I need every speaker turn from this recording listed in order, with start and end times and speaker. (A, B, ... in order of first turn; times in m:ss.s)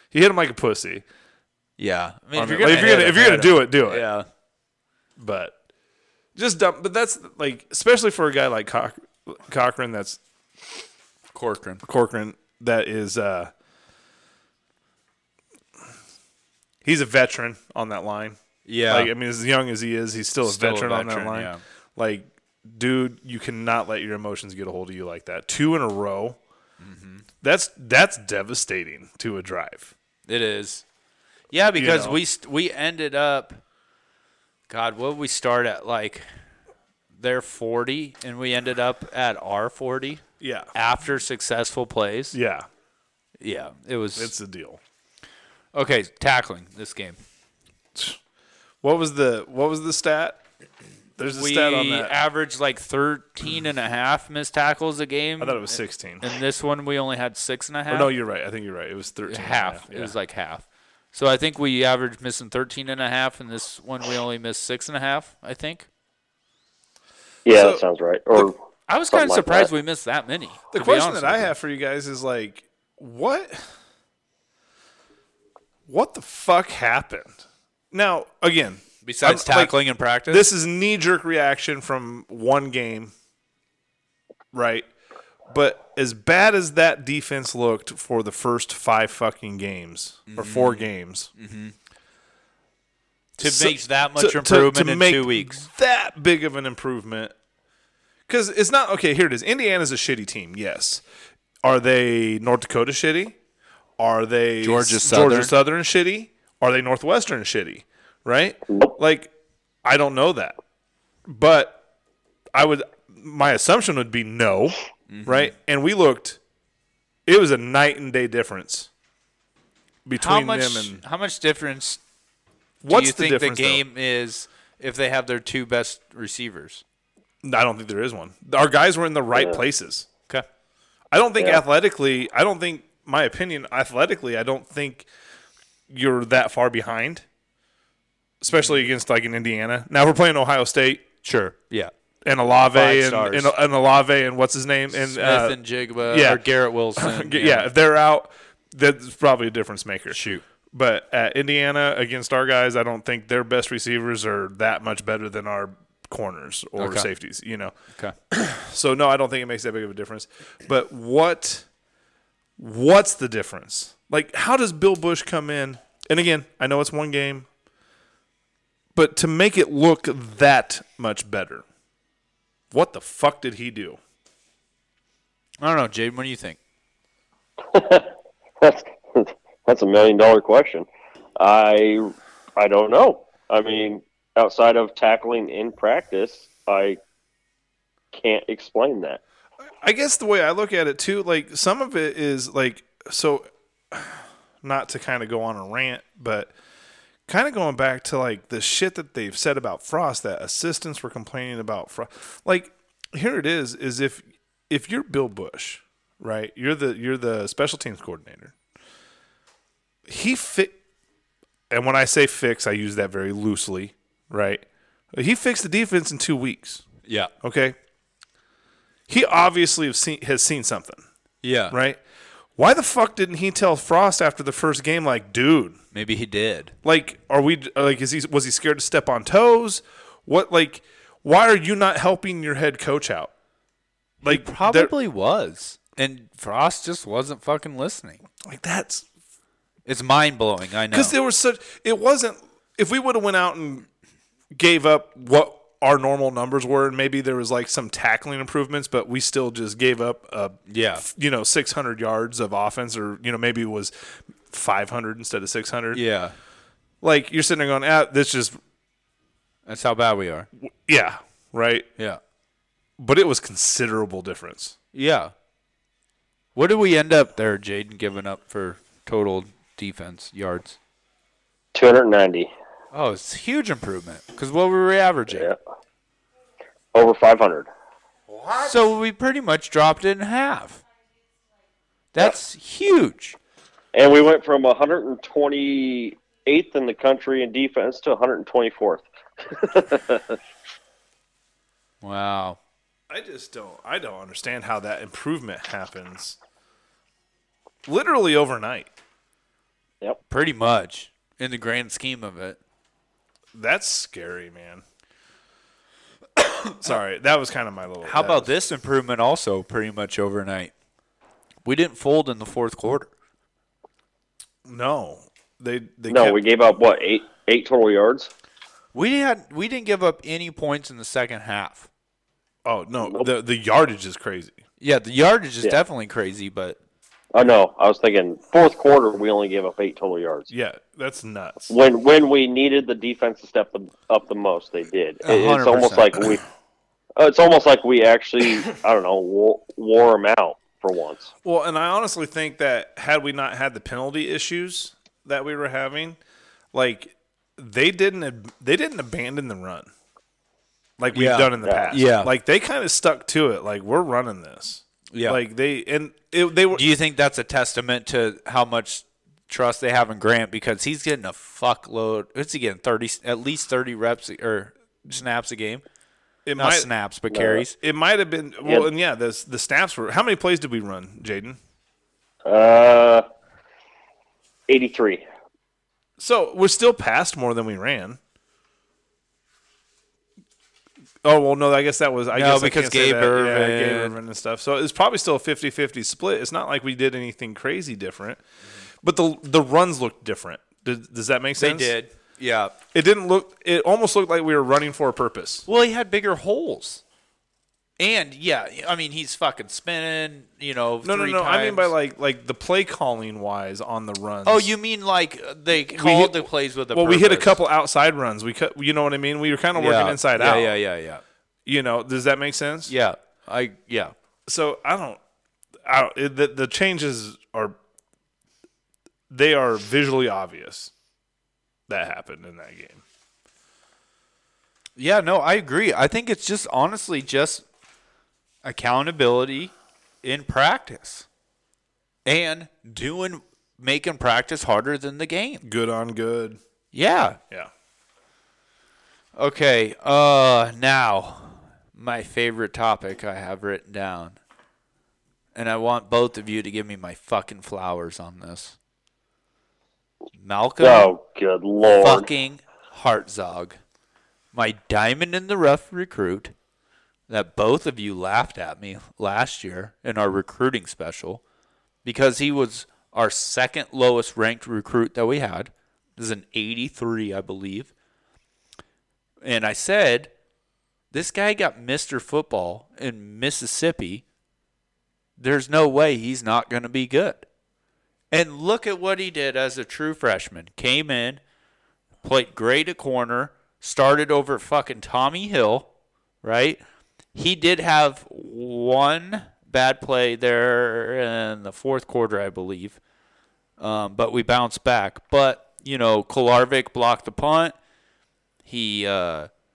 0:00.1-0:01.0 A
0:01.8-0:04.3 B
0:02.3-0:04.0 A
0:05.2-0:05.5 A
0:06.4-0:10.2 A
0:11.3-0:11.8 B
0:11.8-0:13.5 A
0:16.8-0:18.4 A
0:18.6-0:19.1 B
0:18.9-0:26.4 A
0:20.4-0:21.6 B
0:26.8-0:27.2 B
0:27.4-0:29.9 A
0:30.3-0:30.8 B
0:31.5-0:33.6 B
0:31.7-0:32.2 A
0:34.7-0:36.2 B
0:37.2-0:42.4 B
0:40.4-0:40.7 A
0:42.3-0:42.7 A
0:43.4-0:44.3 B
0:44.2-0:44.8 A
0:45.7-0:47.2 B
0:48.8-0:50.4 A
0:51.2-0:52.1 A
0:51.2-0:58.1 B
0:55.4-0:56.2 A
0:57.9-1:00.1 A
0:59.3-1:05.9 B
1:07.4-1:08.5 C
1:07.5-1:07.8 A
1:08.9-1:11.5 B
1:09.1-1:09.7 C
1:10.7-1:13.6 A
1:15.9-1:17.4 A
1:17.9-1:19.8 A
1:19.0-1:20.5 B
1:20.3-1:23.1 A
1:24.5-1:24.9 A
1:25.5-1:31.3 A
1:30.3-1:31.7 B
1:33.4-1:35.7 B
1:33.4-1:37.3 A
1:38.3-1:41.0 A
1:41.6-1:43.4 A
1:44.0-1:49.3 A
1:44.6-1:45.5 B
1:49.8-1:50.6 A
1:51.2-1:51.8 A
1:52.5-1:56.4 A
1:55.1-1:55.5 B
1:57.2-1:58.9 A
2:00.0-2:01.0 A
2:00.2-2:02.0 B
2:02.8-2:03.8 A
2:02.8-2:06.8 B
2:07.4-2:10.1 A
2:09.3-2:09.6 C
2:11.1-2:15.1 A
2:15.9-2:17.2 A
2:18.4-2:21.0 A
2:21.2-2:21.9 B
2:22.2-2:26.4 A
2:22.7-2:23.5 B
2:24.9-2:27.7 B
2:27.0-2:30.2 A
2:30.1-2:30.4 B
2:30.7-2:37.7 A
2:36.8-2:37.1 B
2:38.3-2:41.6 A
2:42.6-2:47.5 A
2:48.9-2:51.6 A
2:52.7-2:54.0 A
2:55.6-2:56.6 B
2:57.7-3:00.9 C
3:01.4-3:07.0 C
3:08.1-3:09.2 C
3:09.8-3:16.5 A
3:17.3-3:28.5 A
3:30.1-3:30.8 A
3:31.7-3:36.8 A
3:37.0-3:37.3 B
3:37.4-3:37.8 A
3:39.1-3:41.0 A
3:41.4-3:41.8 B
3:41.7-3:42.0 A
3:42.6-3:45.8 A
3:45.9-3:46.7 B
3:46.8-3:53.3 A
3:54.2-3:54.9 A
3:54.2-3:58.2 B
3:58.4-3:59.1 A
3:59.8-4:01.1 B
4:00.9-4:03.9 A
4:04.5-4:16.0 A
4:10.7-4:11.0 B
4:15.9-4:16.3 B
4:17.0-4:18.6 A
4:19.6-4:20.5 B
4:20.8-4:21.9 A
4:23.0-4:24.8 A
4:24.9-4:25.3 B
4:26.6-4:30.8 B
4:31.7-4:32.5 C
4:32.9-4:35.5 B
4:36.9-4:37.7 C
4:38.3-4:38.6 A
4:38.6-4:40.8 B
4:42.1-4:43.4 B
4:43.9-4:50.4 C
4:52.0-4:52.6 B
4:53.1-4:56.4 A
4:57.8-4:58.9 A
5:00.3-5:02.6 B
5:03.5-5:04.8 A
5:06.4-5:06.8 B
5:06.8-5:08.5 A
5:08.0-5:10.7 B
5:11.6-5:13.1 B
5:14.6-5:16.4 A
5:16.1-5:18.3 C
5:18.9-5:21.9 B
5:22.6-5:24.6 A
5:24.8-5:26.8 B
5:27.3-5:30.5 C
5:30.5-5:31.7 A
5:31.7-5:36.4 C
5:35.2-5:36.2 B
5:37.2-5:41.3 C
5:41.4-5:46.2 A
5:46.7-5:49.9 A
5:51.0-5:56.8 A
5:51.1-5:52.3 B
5:51.6-5:51.9 C
5:55.1-5:55.4 B
5:56.7-6:05.8 B
6:06.4-6:06.9 A
6:06.6-6:07.8 B
6:07.3-6:07.6 C
6:07.8-6:11.6 A
6:12.4-6:13.2 C
6:14.7-6:15.2 C
6:16.2-6:18.2 A
6:21.2-6:28.4 A
6:22.3-6:24.1 B
6:29.0-6:31.9 A
6:31.6-6:32.7 B
6:32.9-6:35.6 A
6:35.7-6:37.0 B
6:38.0-6:41.9 B
6:41.0-6:44.7 A
6:44.4-6:47.6 B
6:45.7-6:50.7 A
6:49.7-6:51.2 B
6:51.6-6:52.9 A
6:52.9-6:54.1 B
6:54.5-6:55.2 A
6:55.8-6:57.8 A
6:59.3-7:00.9 A
7:01.9-7:03.0 A
7:05.0-7:07.6 B
7:08.6-7:11.2 B
7:12.2-7:15.6 B
7:15.6-7:16.6 A
7:16.9-7:17.4 B
7:19.4-7:24.4 B
7:25.5-7:28.8 B
7:30.4-7:31.1 B
7:30.8-7:32.3 C
7:31.9-7:33.8 B
7:34.5-7:36.5 B
7:37.3-7:41.4 B
7:42.0-7:47.9 B
7:49.4-7:50.3 B
7:51.1-7:54.2 B
7:55.4-7:57.4 B
7:58.3-8:01.4 B
8:02.2-8:05.9 B
8:06.4-8:06.8 B
8:07.3-8:13.0 B
8:13.8-8:17.7 B
8:18.6-8:19.5 B